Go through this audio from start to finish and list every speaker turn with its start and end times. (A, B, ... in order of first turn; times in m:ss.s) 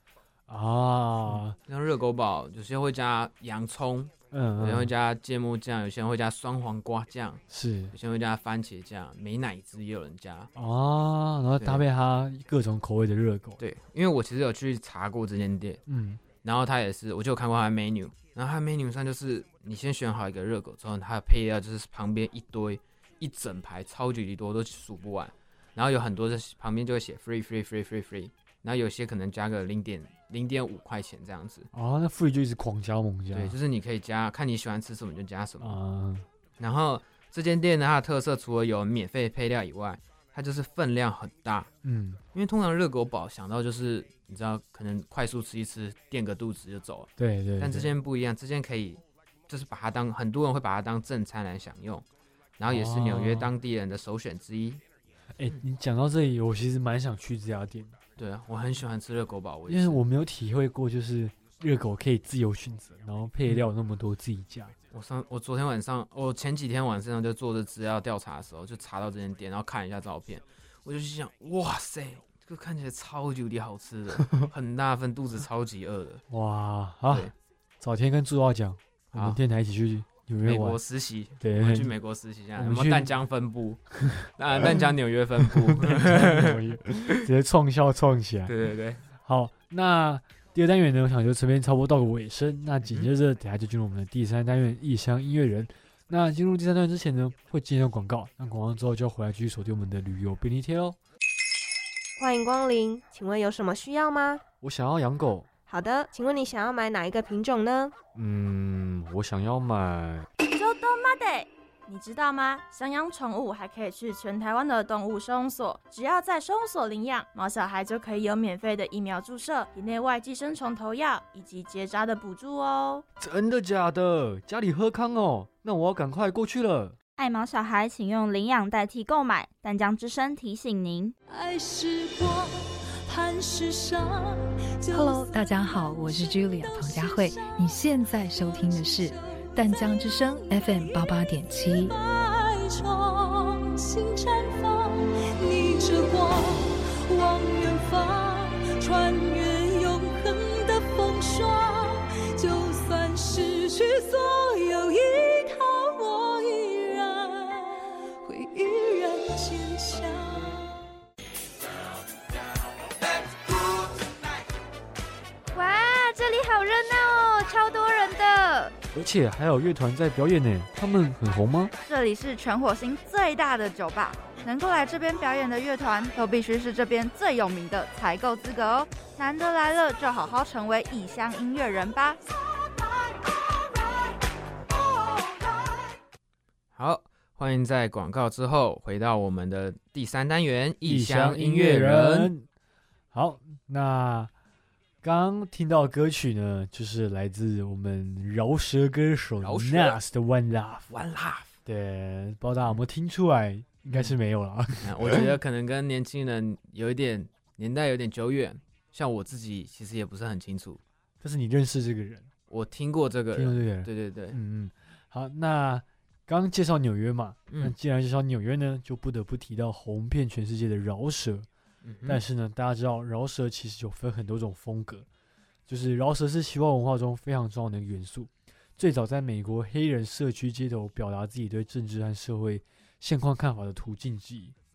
0:00.5-0:01.6 A
0:01.3-0:07.4 B
0:04.3-0:04.9 A
0:07.5-0:07.9 A
0:07.9-0:10.5 B
0:10.6-0:13.6 A
0:11.6-0:11.8 B
0:13.6-0:15.8 B
0:15.9-0:16.2 A
0:16.4-0:31.7 B
0:31.7-0:33.6 A
0:33.3-0:35.8 B
0:35.6-0:36.3 A
0:36.6-0:41.7 B
0:41.8-0:42.2 A
0:42.3-0:52.0 B
0:47.2-0:47.9 A
0:52.6-0:54.8 B
0:52.7-0:53.5 A
0:55.4-0:58.0 A
0:58.2-1:00.0 B
0:59.7-1:04.8 A
1:04.9-1:16.2 B
1:16.3-1:20.8 A
1:19.1-1:19.4 B
1:20.4-1:27.2 B
1:21.4-1:21.9 A
1:22.6-1:23.1 A
1:25.8-1:28.5 A
1:28.5-1:29.0 B
1:29.2-1:41.0 A
1:32.8-1:33.1 B
1:42.2-1:44.4 C
1:44.6-1:45.5 A
1:45.7-1:48.0 C
1:48.2-1:50.3 A
1:50.5-2:03.0 D
2:03.2-2:07.0 A
2:07.2-2:11.2 E
2:11.3-2:21.1 F
2:14.9-2:21.9 G
2:21.6-2:40.7 F
2:45.5-2:48.7 H
2:48.9-2:51.7 A
2:51.9-3:02.2 I
3:06.8-3:12.3 B
3:10.8-3:12.5 A
3:13.1-3:14.3 A
3:15.0-3:20.9 A
3:19.4-3:20.0 B
3:20.9-3:21.6 B
3:21.7-3:25.2 A
3:24.8-3:30.8 B
3:31.2-3:32.3 A
3:32.5-3:34.4 B
3:33.3-3:41.5 A
3:37.5-3:37.8 B
3:41.8-3:42.2 B
3:42.1-3:45.1 A
3:45.7-3:54.6 A